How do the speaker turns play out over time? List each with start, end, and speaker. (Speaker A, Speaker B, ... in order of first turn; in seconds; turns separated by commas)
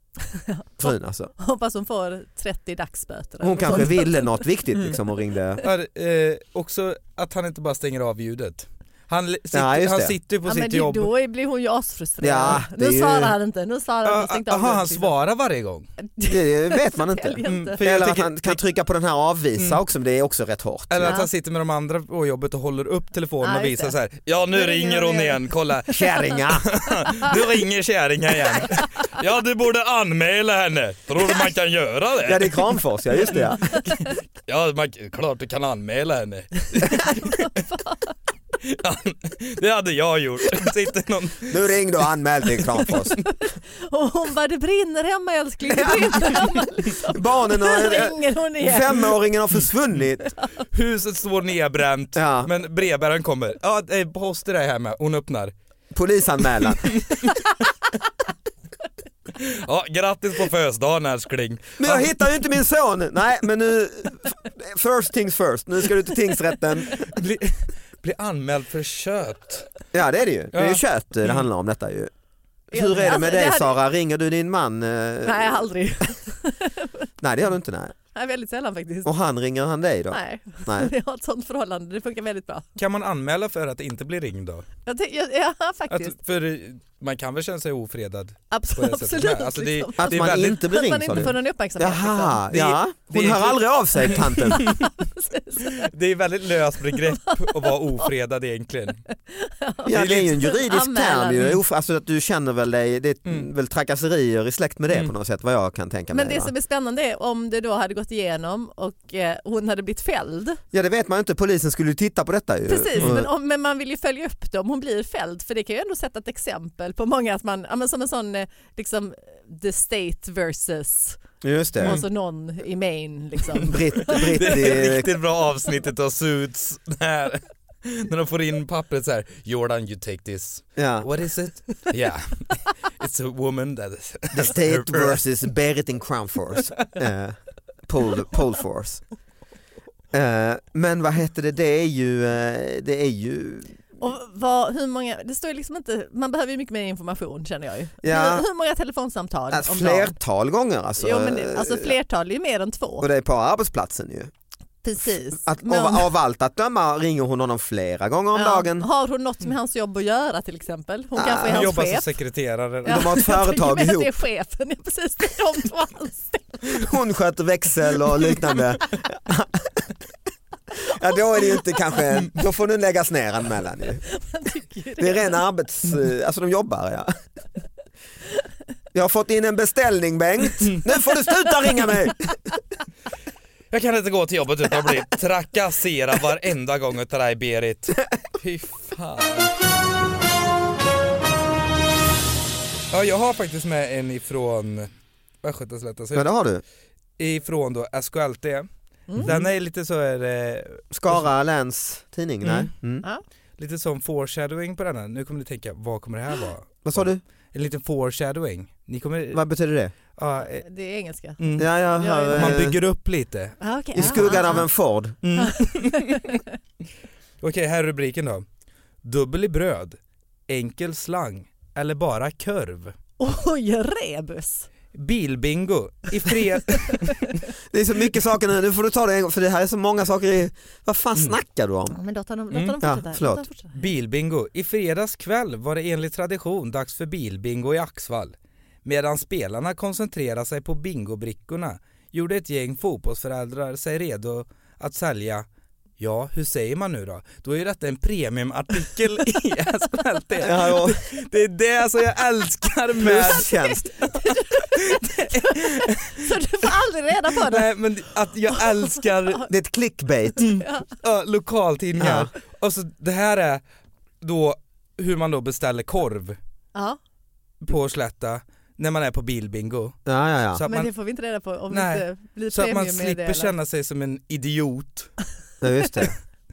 Speaker A: 0.3-4.3, Speaker B: 0.8-1.3, Speaker B: 3.4-5.6, Speaker C: 5.6-11.1, Speaker B: 9.5-10.2, Speaker A: 10.4-15.1, Speaker B: 12.2-13.3, Speaker C: 14.0-15.9, Speaker A: 16.1-17.8, Speaker B: 16.2-21.1, Speaker C: 17.4-18.6, Speaker C: 20.9-32.7, Speaker A: 21.0-21.3, Speaker A: 23.4-23.9, Speaker A: 24.5-25.4, Speaker B: 25.9-26.7, Speaker A: 25.9-26.2, Speaker A: 28.6-28.8, Speaker B: 32.2-33.6, Speaker C: 33.3-37.6, Speaker B: 36.8-37.1, Speaker C: 38.6-41.7, Speaker B: 41.5-43.2, Speaker A: 43.9-49.2, Speaker B: 45.6-50.3, Speaker C: 50.7-55.5, Speaker B: 52.1-52.5, Speaker B: 55.9-57.0, Speaker C: 56.8-57.3, Speaker C: 59.4-62.2, Speaker B: 61.8-67.1, Speaker C: 67.0-69.7, Speaker B: 69.9-72.1, Speaker C: 70.5-71.5, Speaker B: 72.7-75.6, Speaker A: 72.7-73.7, Speaker A: 75.2-77.1, Speaker B: 77.2-77.9, Speaker A: 78.1-79.1, Speaker B: 79.0-80.9, Speaker A: 80.1-82.6, Speaker C: 82.8-84.7, Speaker A: 84.8-86.1, Speaker C: 85.9-90.6, Speaker A: 88.5-92.4, Speaker B: 90.0-94.8, Speaker C: 92.5-94.9, Speaker A: 94.5-95.9, Speaker C: 95.7-99.0, Speaker A: 97.0-97.7, Speaker A: 99.3-101.5, Speaker B: 99.8-106.5, Speaker C: 99.9-100.3, Speaker A: 106.1-110.6, Speaker B: 110.7-113.3, Speaker A: 112.7-121.2, Speaker B: 121.4-122.0, Speaker A: 121.8-124.8, Speaker B: 123.6-125.1, Speaker C: 124.1-135.2, Speaker B: 130.8-131.1, Speaker B: 134.3-139.0, Speaker B: 140.1-143.8, Speaker A: 144.0-150.1, Speaker B: 148.0-148.4, Speaker B: 149.5-151.9, Speaker A: 151.0-153.1, Speaker B: 153.0-154.3, Speaker A: 154.8-156.1, Speaker B: 155.4-158.9, Speaker A: 158.3-162.1, Speaker B: 161.2-161.7, Speaker C: 161.5-163.2, Speaker A: 162.8-166.8, Speaker B: 162.8-164.1, Speaker B: 166.7-169.9, Speaker B: 170.8-174.0, Speaker A: 174.3-175.4, Speaker B: 175.0-177.1, Speaker B: 178.9-182.3, Speaker C: 183.7-189.5, Speaker C: 192.9-194.9, Speaker C: 195.4-196.3, Speaker B: 196.1-196.6, Speaker C: 197.2-198.7, Speaker A: 199.1-199.3, Speaker B: 199.2-199.4, Speaker C: 199.2-201.3, Speaker B: 200.9-203.1, Speaker C: 202.4-202.7, Speaker C: 203.6-209.4, Speaker B: 206.8-207.2, Speaker B: 209.3-209.9, Speaker C: 210.2-210.6, Speaker A: 210.5-212.7, Speaker C: 211.4-211.7, Speaker B: 211.6-212.8, Speaker C: 212.3-214.6, Speaker A: 213.6-214.7, Speaker B: 213.9-215.2, Speaker C: 215.2-216.3, Speaker A: 215.4-216.4, Speaker C: 217.4-218.4, Speaker C: 219.0-222.9, Speaker A: 223.2-224.7, Speaker C: 224.9-227.3, Speaker B: 227.7-232.0, Speaker A: 231.9-233.7, Speaker C: 232.5-232.8, Speaker B: 232.8-233.4, Speaker C: 233.7-238.3, Speaker C: 238.8-245.4, Speaker C: 246.0-256.2, Speaker B: 250.4-251.0, Speaker B: 253.0-253.9, Speaker A: 254.2-257.7, Speaker C: 257.4-259.4, Speaker B: 259.5-260.4, Speaker C: 260.4-263.6, Speaker A: 260.4-260.9, Speaker B: 262.0-262.3, Speaker C: 264.2-266.4, Speaker C: 267.6-270.0, Speaker B: 270.1-270.6, Speaker C: 270.5-270.9, Speaker A: 270.6-273.5, Speaker C: 271.7-275.1, Speaker B: 275.6-276.1